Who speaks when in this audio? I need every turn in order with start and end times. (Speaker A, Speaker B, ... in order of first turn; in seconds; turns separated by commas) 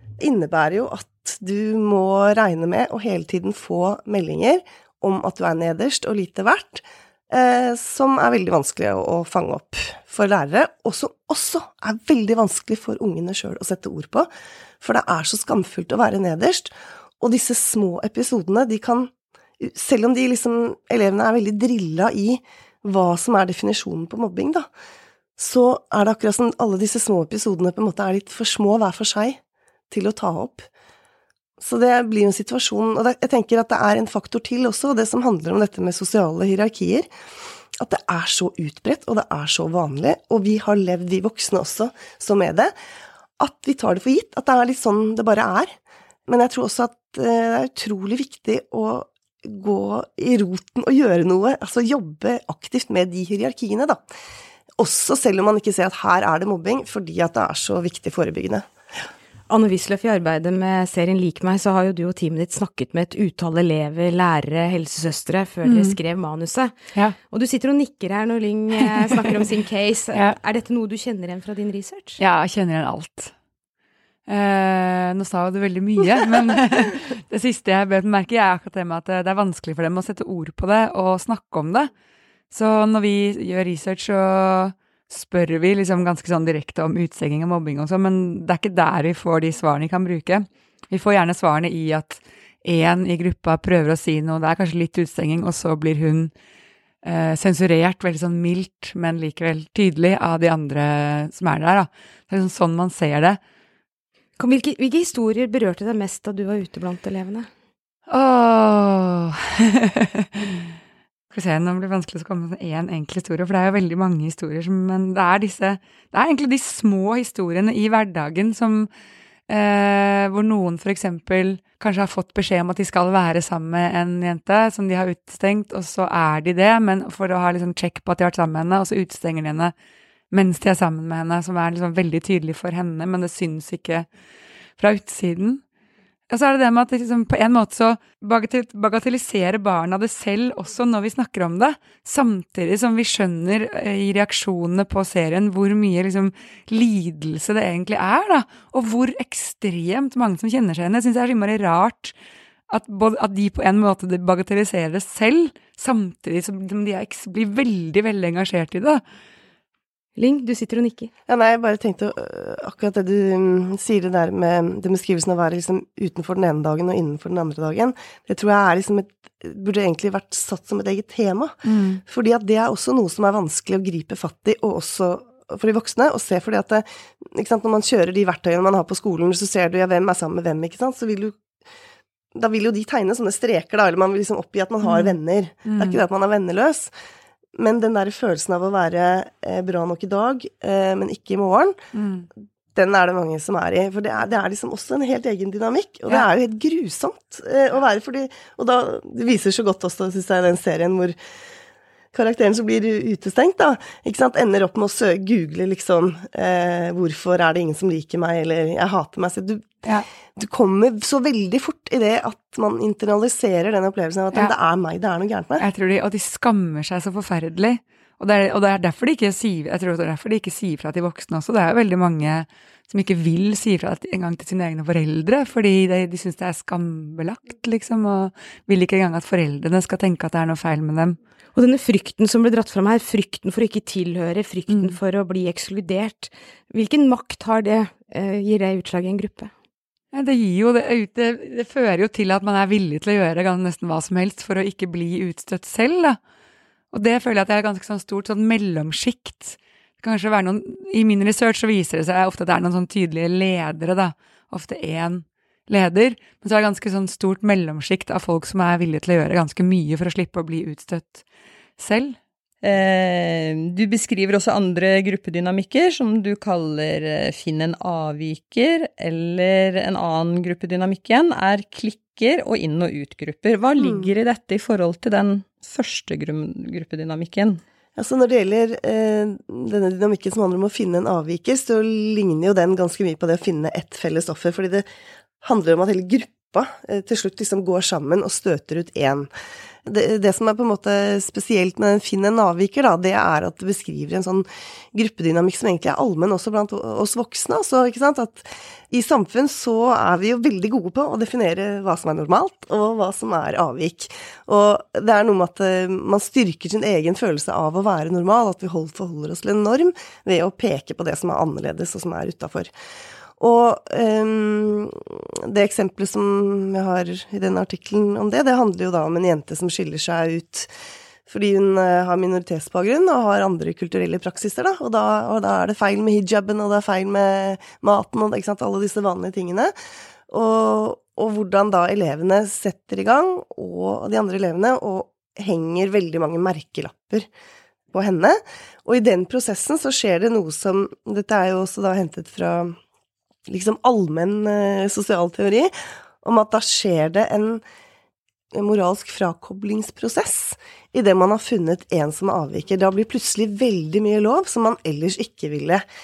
Speaker A: 0.2-14.3, Speaker A: 14.8-24.7, Speaker A: 25.4-29.4, Speaker A: 29.9-30.7, Speaker A: 31.6-37.1, Speaker A: 37.8-42.7, Speaker A: 43.4-45.7, Speaker A: 46.3-54.0, Speaker A: 54.8-58.7, Speaker B: 59.5-66.7, Speaker C: 65.7-66.0, Speaker B: 67.3-72.2, Speaker C: 72.2-73.3, Speaker C: 74.3-81.9, Speaker C: 82.5-96.3, Speaker C: 97.0-103.4, Speaker B: 104.4-107.5, Speaker C: 108.1-110.7, Speaker C: 111.3-118.9, Speaker C: 119.5-129.7, Speaker C: 130.3-134.1, Speaker C: 134.8-135.6, Speaker C: 136.3-152.2, Speaker C: 152.7-159.0, Speaker B: 160.2-161.1, Speaker A: 161.3-181.4, Speaker C: 171.7-172.0, Speaker A: 182.4-186.9, Speaker C: 184.8-186.0, Speaker A: 187.6-191.8, Speaker C: 191.9-192.3, Speaker A: 192.8-201.2, Speaker A: 202.1-209.8, Speaker A: 210.4-215.7, Speaker C: 215.6-231.2, Speaker B: 231.6-239.5, Speaker C: 234.7-235.0, Speaker C: 240.1-246.2, Speaker C: 246.9-261.2, Speaker C: 261.8-262.2, Speaker D: 262.6-277.6, Speaker A: 273.8-274.1, Speaker A: 278.0-284.9, Speaker A: 285.4-289.3, Speaker A: 289.9-312.7, Speaker A: 313.4-320.7, Speaker A: 321.3-329.7, Speaker A: 330.3-337.3, Speaker A: 337.9-342.8, Speaker A: 343.5-347.6, Speaker A: 348.5-355.8